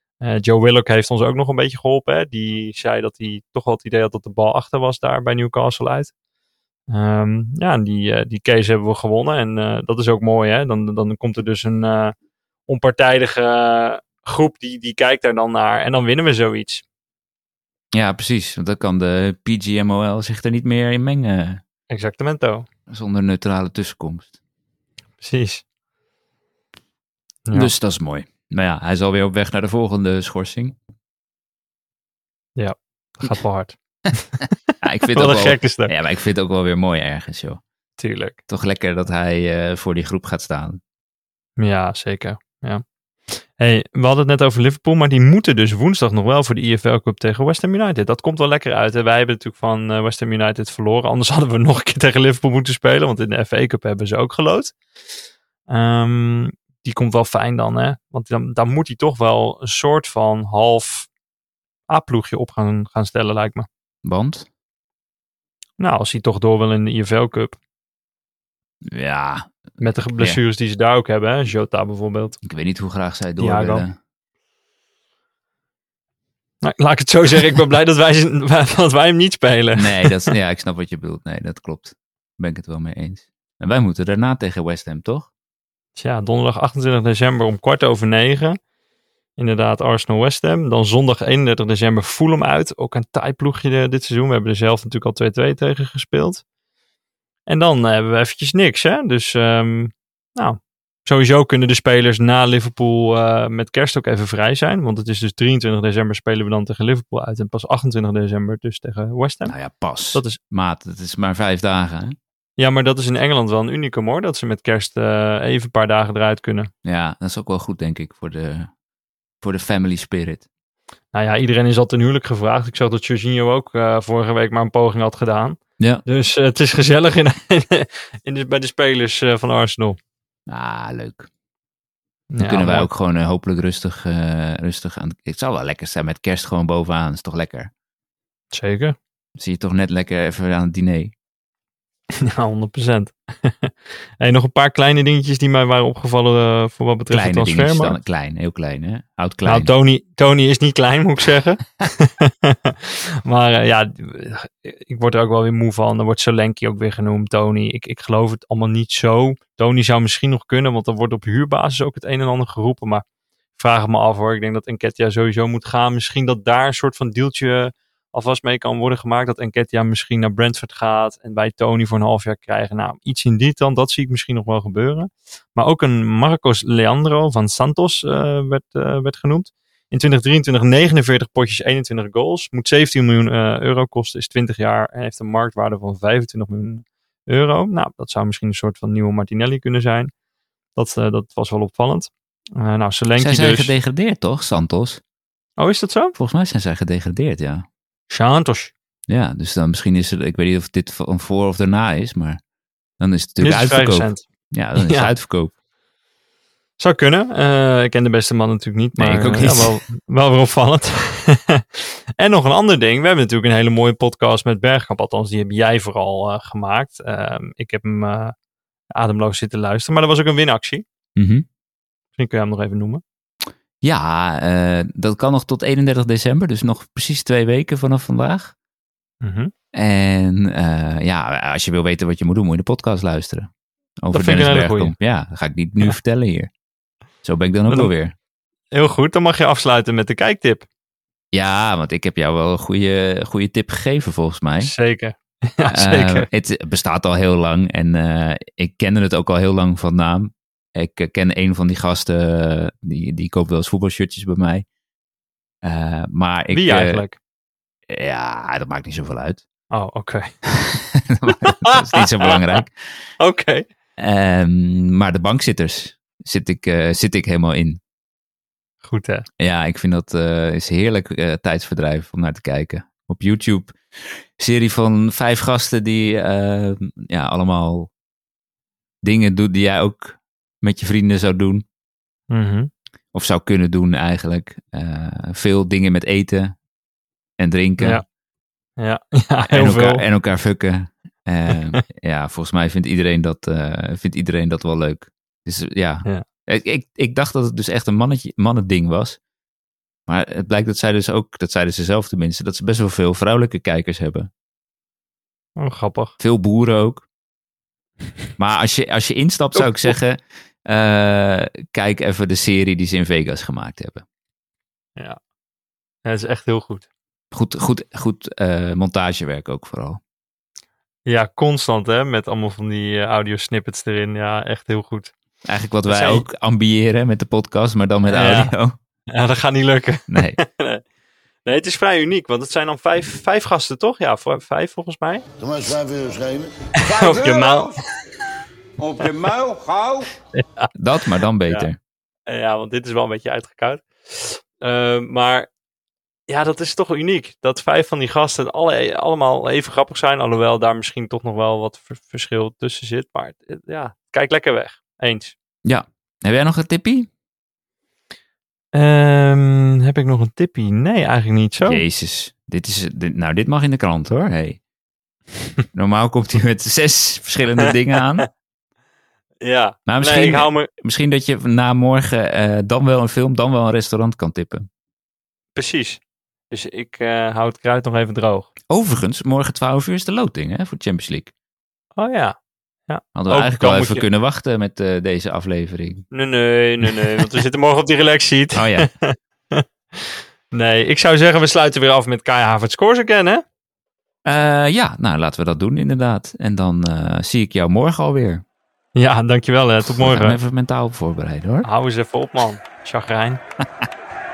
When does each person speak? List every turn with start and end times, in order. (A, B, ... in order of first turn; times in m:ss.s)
0:00.2-0:06.1 A
0:06.9-0:12.1 A
0:12.7-0:16.8 A
0:17.9-0:21.6 B
0:21.9-0:22.7 A
0:22.9-0:24.3 B
0:25.2-0:25.6 A
0:27.5-0:30.8 B
0:32.6-0:35.9 A
0:34.8-0:37.6 B
0:38.0-0:38.4 A
0:38.5-0:40.8 B
0:41.6-0:54.8 A
0:55.7-1:01.1 A
1:01.9-1:03.7 A
1:04.0-1:04.5 B
1:05.8-1:07.6 A
1:08.9-1:09.6 B
1:09.8-1:12.4 A
1:12.4-1:14.0 B
1:13.4-1:13.9 A
1:16.6-1:20.3 A
1:19.8-1:25.3 B
1:26.0-1:28.6 A
1:29.4-1:36.4 A
1:37.5-1:49.6 A
1:49.4-1:52.2 B
1:52.6-1:56.7 A
1:56.8-1:58.7 B
1:59.4-2:00.4 B
2:01.1-2:10.0 A
2:10.5-2:11.3 B
2:12.3-2:12.9 A
2:12.4-2:17.7 B
2:18.5-2:19.0 A
2:19.4-2:21.1 B
2:22.2-2:28.0 A
2:27.1-2:29.7 B
2:29.4-2:43.0 A
2:43.6-3:10.1 A
3:10.8-3:13.7 A
3:13.2-3:15.0 B
3:15.6-3:16.2 A
3:16.2-3:17.7 B
3:18.1-3:18.7 A
3:19.1-3:22.4 B
3:23.0-3:25.5 B
3:23.4-3:24.2 A
3:24.8-3:25.1 A
3:26.8-3:38.3 A
3:29.0-3:29.8 B
3:39.0-3:40.8 A
3:41.2-3:41.4 B
3:42.2-3:43.0 A
3:43.8-3:48.5 B
3:49.2-3:49.5 A
3:49.7-3:53.5 B
3:54.0-3:56.5 B
3:54.1-3:55.0 A
3:57.2-3:58.1 B
3:58.7-4:00.6 A
4:01.3-4:04.7 B
4:04.6-4:06.3 A
4:05.7-4:14.7 B
4:15.6-4:17.0 B
4:16.5-4:17.2 A
4:17.9-4:19.4 B
4:19.7-4:20.3 A
4:20.5-4:22.8 B
4:21.3-4:22.4 A
4:23.2-4:23.7 A
4:24.0-4:27.8 B
4:28.8-4:29.3 A
4:29.4-4:37.9 B
4:39.0-4:41.6 B
4:42.3-4:42.7 A
4:43.1-4:46.6 B
4:47.4-4:48.0 B
4:47.8-4:48.0 A
4:48.8-4:50.0 A
4:49.4-4:59.2 B
4:51.5-4:51.8 A
5:00.1-5:04.3 B
5:05.6-5:06.1 A
5:06.2-5:07.0 B
5:08.4-5:14.0 B
5:09.6-5:09.9 A
5:16.0-5:16.9 A
5:17.3-5:20.0 B
5:21.1-5:25.1 A
5:25.4-5:28.8 B
5:25.9-5:26.2 A
5:28.1-5:28.5 A
5:29.1-5:30.8 A
5:30.1-5:30.4 B
5:31.4-5:35.3 A
5:35.4-5:37.8 C
5:36.8-5:37.8 A
5:38.8-5:40.1 C
5:40.4-5:40.7 A
5:40.7-5:41.8 B
5:42.3-5:45.5 A
5:46.3-5:55.3 A
5:55.6-5:57.1 B
5:58.7-6:01.8 A
6:01.6-6:04.6 B
6:05.7-6:08.3 B
6:09.4-6:10.7 A
6:09.9-6:14.7 B
6:15.6-6:16.0 A
6:16.5-6:18.5 A
6:18.7-6:21.3 B
6:22.0-6:22.4 A
6:22.9-6:24.1 A
6:23.2-6:26.1 B
6:26.1-6:33.4 A
6:26.9-6:27.2 B
6:28.5-6:28.9 B
6:34.3-6:38.4 B
6:39.0-6:40.4 A
6:39.8-6:41.7 B
6:41.6-6:43.4 A